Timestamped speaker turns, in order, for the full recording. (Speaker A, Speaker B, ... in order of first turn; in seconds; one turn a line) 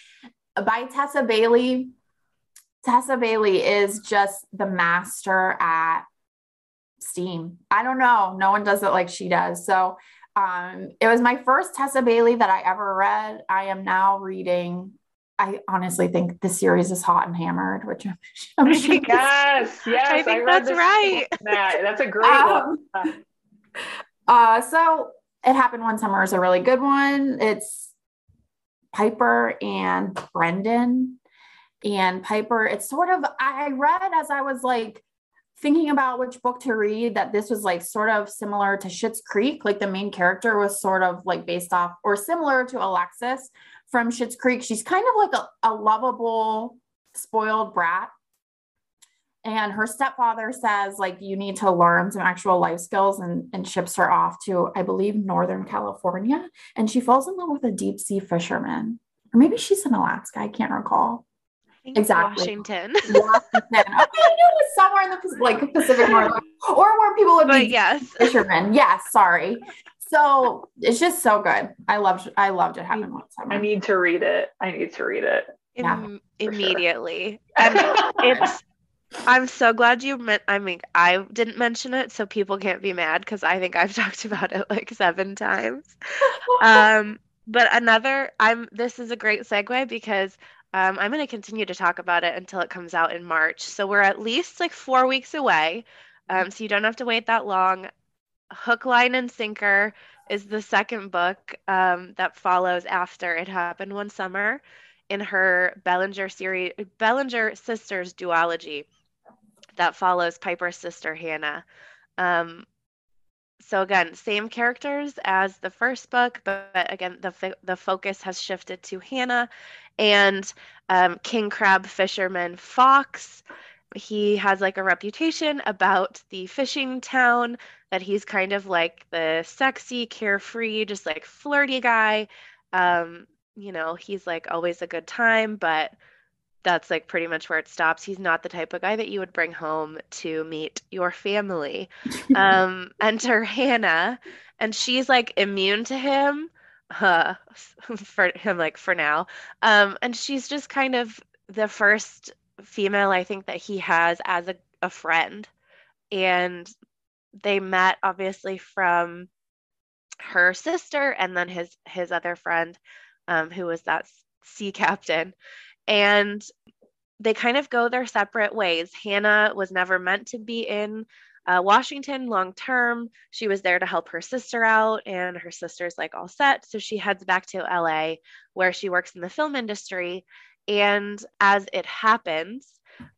Speaker A: 0.6-1.9
Speaker A: 2.8-6.1
Speaker A: 7.0-19.3
Speaker B: 18.7-19.1
Speaker C: 19.1-23.1
Speaker B: 20.1-21.3
Speaker A: 22.2-22.9
Speaker A: 24.3-27.9
Speaker A: 28.9-31.2
Speaker A: 31.8-35.0
Speaker A: 35.6-48.1
Speaker A: 49.4-61.2
Speaker B: 61.9-63.4
Speaker A: 62.0-73.7
Speaker B: 67.5-68.4
Speaker C: 73.5-75.5
Speaker B: 75.8-78.6
Speaker A: 75.8-76.1
Speaker C: 77.7-78.4
Speaker B: 79.2-97.9
Speaker B: 98.5-108.9
Speaker B: 109.8-111.6
Speaker B: 112.2-112.7
Speaker B: 113.6-123.4
Speaker B: 124.0-135.9
Speaker B: 136.6-155.5
Speaker B: 156.1-156.7
Speaker B: 157.4-159.3
Speaker B: 160.2-165.3
Speaker B: 165.9-166.5
Speaker B: 167.2-182.8